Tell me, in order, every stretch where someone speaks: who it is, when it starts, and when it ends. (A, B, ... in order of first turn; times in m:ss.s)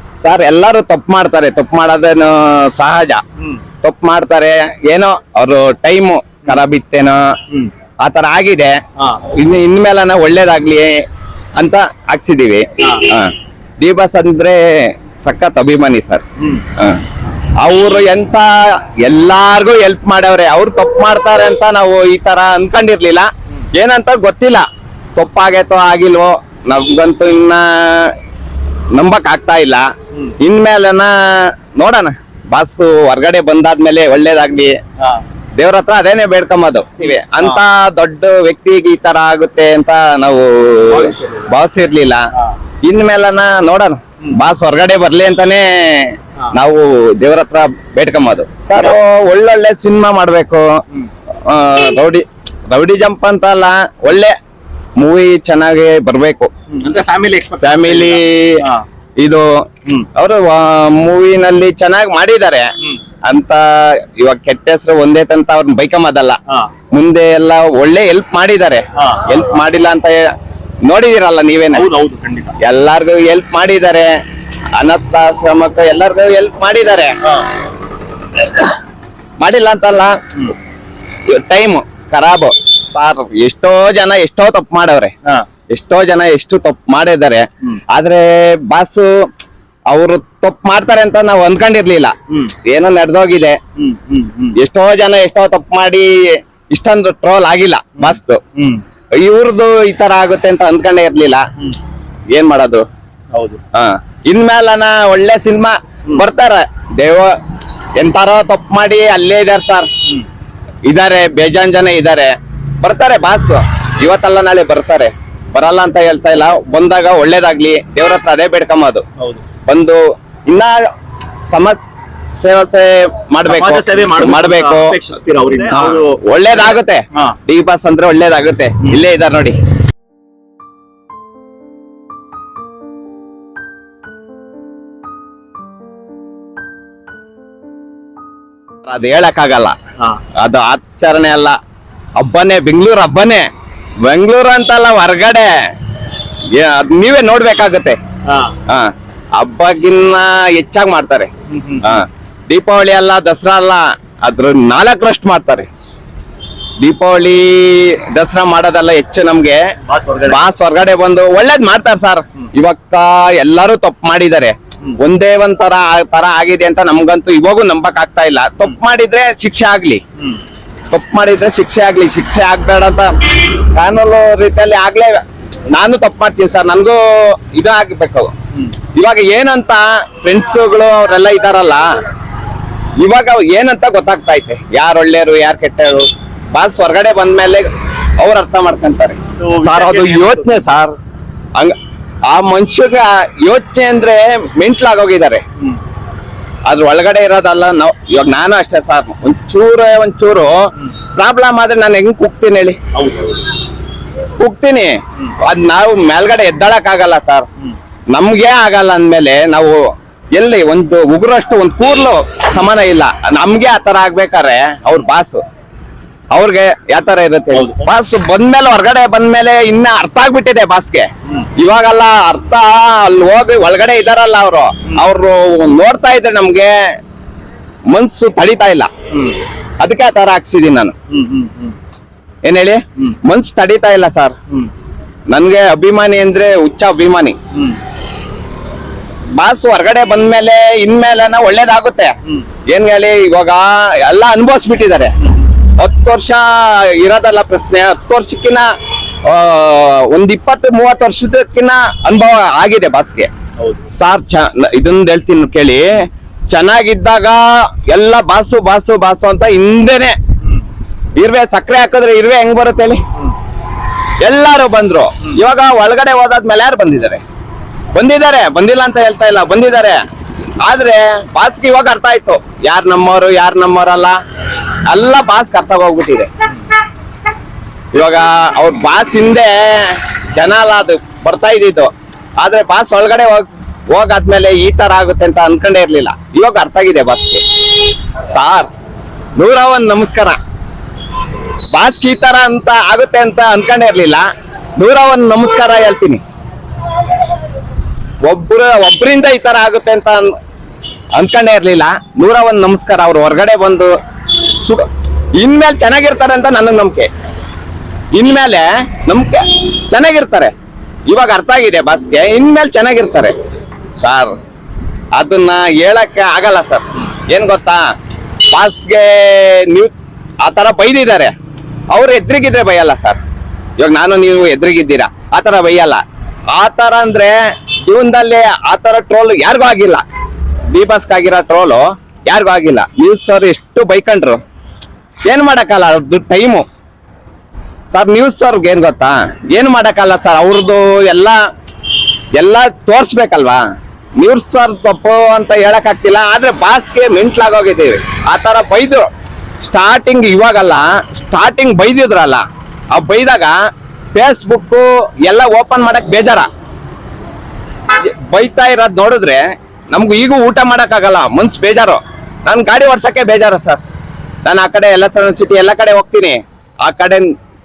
0:00.2-0:03.2 A
0:03.8-0:07.2 A
0:08.0-0:08.8 A
0:09.0-0:09.2 B
0:09.3-0:11.0 A
0:11.6-0:17.0 A
0:12.8-0:13.1 B
0:16.4-0:16.7 B
0:17.6-0:24.6 A
0:25.2-0:28.2 A
0:28.9-0:29.8 A
0:30.4-0:34.8 A
0:35.6-0:42.2 A
0:40.9-0:41.5 B
0:42.8-0:50.7 A
0:51.4-0:54.3 A
0:55.0-0:56.5 A
0:56.7-0:58.8 B
0:57.6-0:58.6 A
0:59.2-0:59.4 A
1:00.1-1:02.7 A
1:03.2-1:06.4 A
1:06.9-1:10.2 A
1:09.0-1:09.3 B
1:10.8-1:11.9 A
1:11.7-1:12.5 B
1:12.6-1:14.2 A
1:14.7-1:17.1 A
1:19.4-1:20.2 A
1:21.3-1:25.1 A
1:25.7-1:29.2 A
1:29.9-1:33.6 A
1:32.3-1:32.5 B
1:33.8-1:34.6 B
1:34.6-1:38.4 A
1:38.0-1:38.8 B
1:39.2-1:41.4 A
1:42.3-1:42.8 A
1:43.3-1:43.6 B
1:43.7-1:47.4 A
1:48.0-1:49.9 A
1:50.9-1:59.0 A
1:59.7-2:00.9 A
2:01.4-2:04.9 A
2:03.4-2:07.4 B
2:05.7-2:09.6 A
2:18.8-2:19.8 A
2:20.4-2:21.6 A
2:22.2-2:23.5 A
2:24.0-2:25.5 A
2:26.5-2:28.0 A
2:28.2-2:28.6 B
2:28.7-2:31.3 A
2:31.5-2:32.0 B
2:31.8-2:35.7 A
2:36.8-2:39.6 A
2:39.9-2:40.4 B
2:40.2-2:50.0 A
2:50.9-2:58.3 A
2:58.9-3:01.9 A
3:03.0-3:07.7 A
3:08.2-3:11.0 A
3:09.4-3:10.7 B
3:12.3-3:15.4 A
3:16.7-3:20.5 A
3:21.2-3:22.8 A
3:22.9-3:23.4 B
3:24.4-3:27.4 A
3:28.1-3:29.8 A
3:30.4-3:35.4 A
3:36.3-3:46.9 A
3:37.5-3:37.9 B
3:47.9-3:48.9 A
3:49.1-3:49.4 B
3:49.8-3:50.9 A
3:51.1-3:51.8 B
3:52.4-3:54.3 A
3:55.3-3:57.4 A
3:59.4-4:02.1 A
4:02.7-4:05.1 A
4:05.8-4:08.6 A
4:09.2-4:13.3 A
4:13.6-4:13.9 B
4:13.9-4:20.2 A
4:21.2-4:23.0 A
4:24.2-4:27.2 A
4:27.9-4:30.0 A
4:30.6-4:34.2 A
4:34.9-4:36.3 A
4:37.9-4:48.7 A
4:49.4-4:50.4 A
4:51.7-4:54.2 A
4:54.8-4:56.2 A
4:58.2-5:00.3 A
5:01.2-5:04.9 A
5:05.4-5:07.1 A
5:08.1-5:10.5 A
5:11.1-5:13.4 A
5:14.0-5:14.3 A
5:15.2-5:17.8 A
5:18.4-5:21.3 A
5:21.9-5:23.2 A
5:23.8-5:26.0 A
5:26.5-5:30.0 A
5:30.7-5:34.4 A
5:35.3-5:36.6 A
5:37.9-5:41.4 A
5:42.4-5:43.6 A
5:44.2-5:49.1 A
5:49.6-5:53.6 A
5:54.1-5:56.5 A
5:57.9-6:03.8 A
6:04.4-6:07.3 A